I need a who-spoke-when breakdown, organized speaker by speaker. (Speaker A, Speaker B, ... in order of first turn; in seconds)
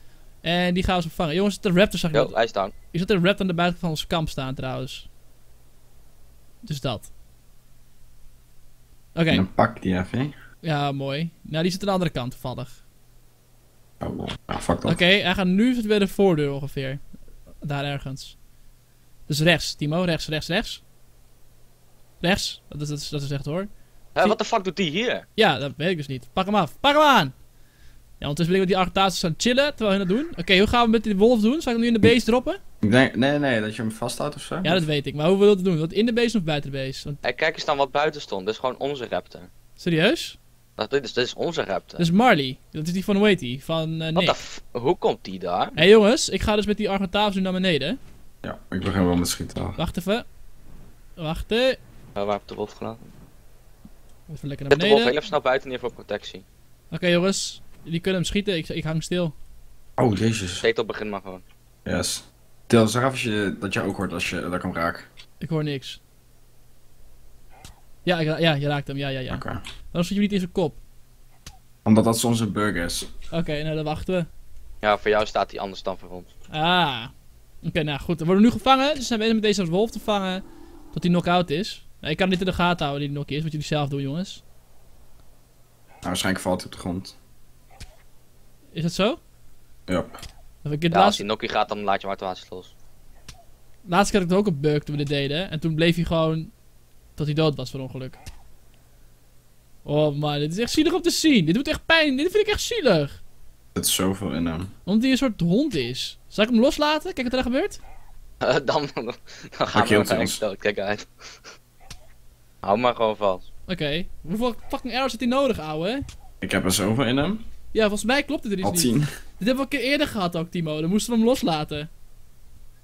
Speaker A: 0.4-2.4, 2.9-5.1, 6.6-7.1, 9.1-9.4, 10.6-12.8, 14.8-17.0, 17.6-18.4, 19.3-20.8, 22.2-23.7, 25.4-27.3, 28.2-32.6, 34.6-37.2, 39.8-40.4, 42.0-44.4, 45.8-48.0, 49.8-50.2, 51.2-51.8, 54.3-55.1, 56.9-59.3, 65.4-66.0, 68.0-70.8, 73.3-74.3, 76.5-77.1, 77.6-84.4, 88.7-89.2, 90.6-91.2, 93.8-96.5, 97.2-98.2, 99.8-103.2, 104.8-107.8, 113.7-116.0, 117.7-121.9
Speaker B: 2.1-2.7, 24.1-25.2, 37.2-39.5, 40.8-42.1, 44.1-45.8, 52.1-53.1, 54.7-56.4, 60.6-61.4, 74.8-76.3, 90.9-92.7, 108.4-111.5, 112.6-113.5
Speaker C: 9.3-10.3, 14.0-15.0, 32.8-34.9, 48.4-49.8, 60.0-60.6, 61.8-65.1, 69.3-69.6, 71.8-73.1, 86.0-87.2, 89.9-90.1, 103.7-104.7, 109.7-110.4, 116.4-117.4, 118.6-119.1